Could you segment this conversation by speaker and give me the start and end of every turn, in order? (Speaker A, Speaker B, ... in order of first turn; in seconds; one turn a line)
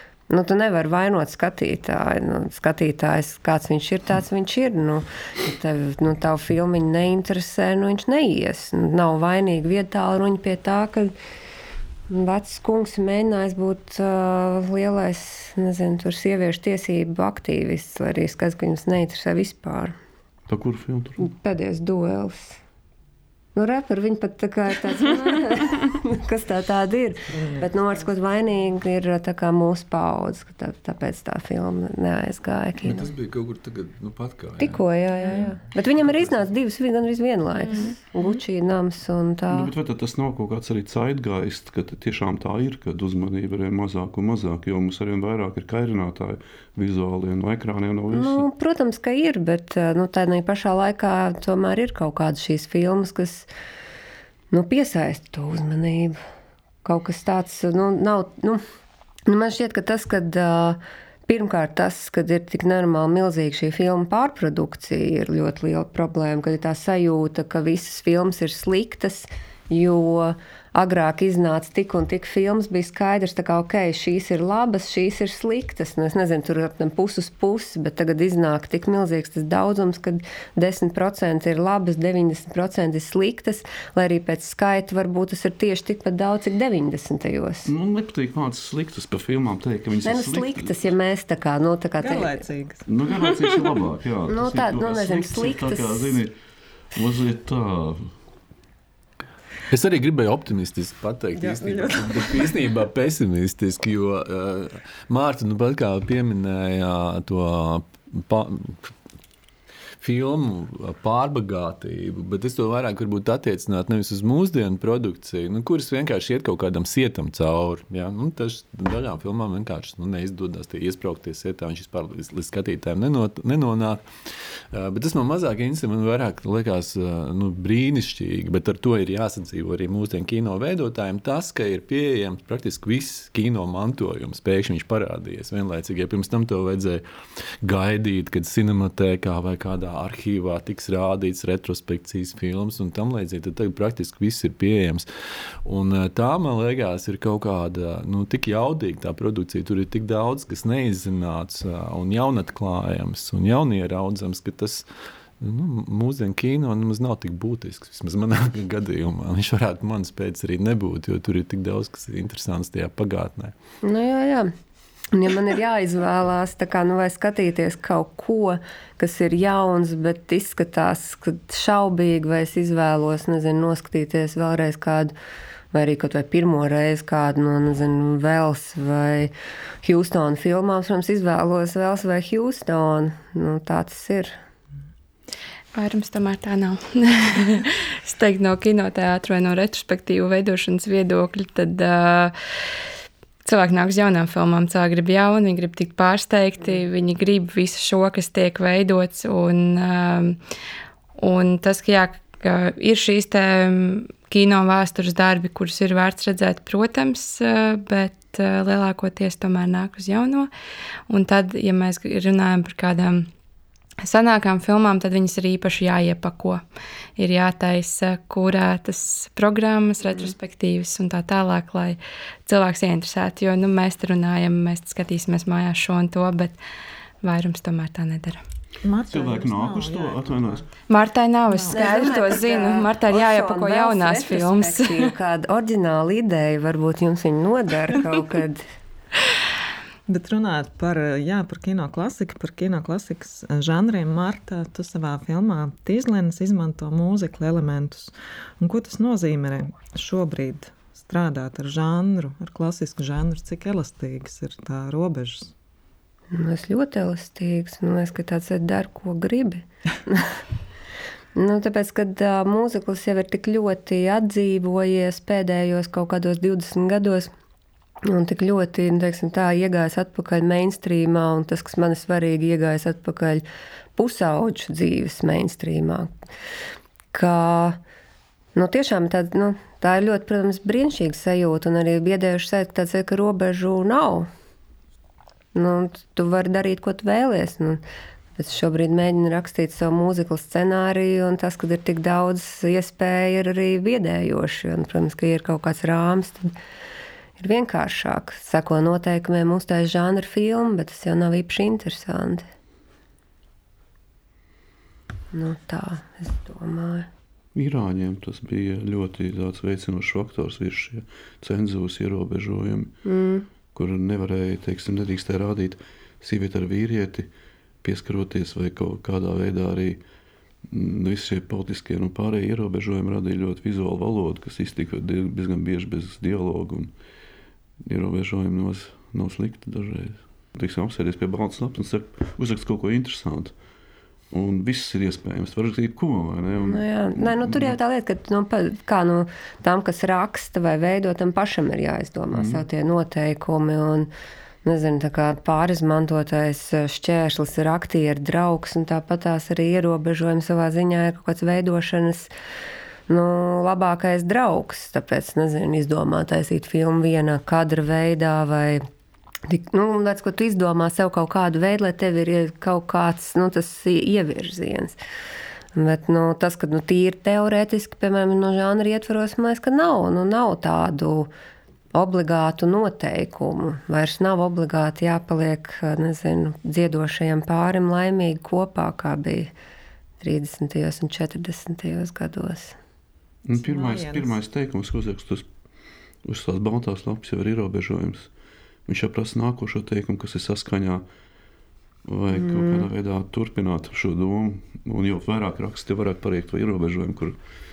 Speaker A: 0.3-11.1
Speaker A: 12.1-19.9
Speaker B: 20.5-21.2
Speaker A: 21.2-22.6
Speaker A: 23.5-33.1
Speaker C: 27.3-27.7
Speaker D: 32.8-36.5
Speaker A: 34.6-39.7
Speaker E: 37.6-38.0
Speaker B: 39.5-48.5
Speaker A: 48.1-53.5
Speaker A: 54.5-56.2
Speaker A: 56.8-58.6
Speaker A: 59.3-87.7
Speaker B: 87.6-90.9
Speaker A: 90.0-92.4
Speaker C: 92.0-92.8
Speaker B: 92.9-96.3
Speaker A: 94.3-96.2
Speaker B: 96.9-98.1
Speaker D: 99.7-108.9
Speaker C: 101.3-102.7
Speaker D: 110.0-124.0
Speaker D: 124.7-137.0
Speaker D: 137.6-145.1
Speaker D: 145.6-154.8
Speaker D: 155.4-163.5
Speaker A: 163.8-164.5
Speaker A: 165.1-175.1
Speaker A: 175.7-179.3
Speaker A: 179.8-184.3
Speaker E: 185.7-192.3
Speaker E: 193.4-200.4
Speaker E: 201.2-210.5
Speaker E: 211.1-213.3
Speaker E: 214.0-216.6
Speaker E: 217.2-226.6
Speaker E: 227.2-228.4
Speaker C: 228.8-230.7
Speaker B: 229.1-230.6
Speaker E: 230.9-235.1
Speaker C: 231.5-232.2
Speaker A: 231.7-238.6
Speaker C: 240.1-255.5
Speaker A: 256.3-260.3
Speaker A: 261.4-267.3
Speaker A: 268.0-273.4
Speaker A: 274.0-276.1
Speaker A: 277.1-277.8
Speaker A: 278.6-284.3
Speaker A: 285.5-287.8
Speaker A: 288.4-296.5
Speaker A: 297.4-302.4
Speaker A: 305.3-307.1
Speaker B: 307.5-312.9
Speaker A: 313.0-313.4
Speaker B: 313.7-317.3
Speaker B: 317.8-320.0
Speaker B: 320.7-326.9
Speaker B: 327.8-333.5
Speaker B: 334.3-337.8
Speaker A: 336.5-344.1
Speaker B: 342.3-342.6
Speaker A: 344.6-352.3
Speaker A: 353.1-358.8
Speaker A: 359.5-364.9
Speaker A: 365.7-371.3
Speaker A: 371.9-379.5
Speaker A: 380.2-382.8
Speaker B: 383.5-385.4
Speaker C: 383.5-384.4
Speaker B: 386.2-388.3
Speaker B: 388.9-391.0
Speaker B: 392.1-397.4
Speaker A: 392.3-392.9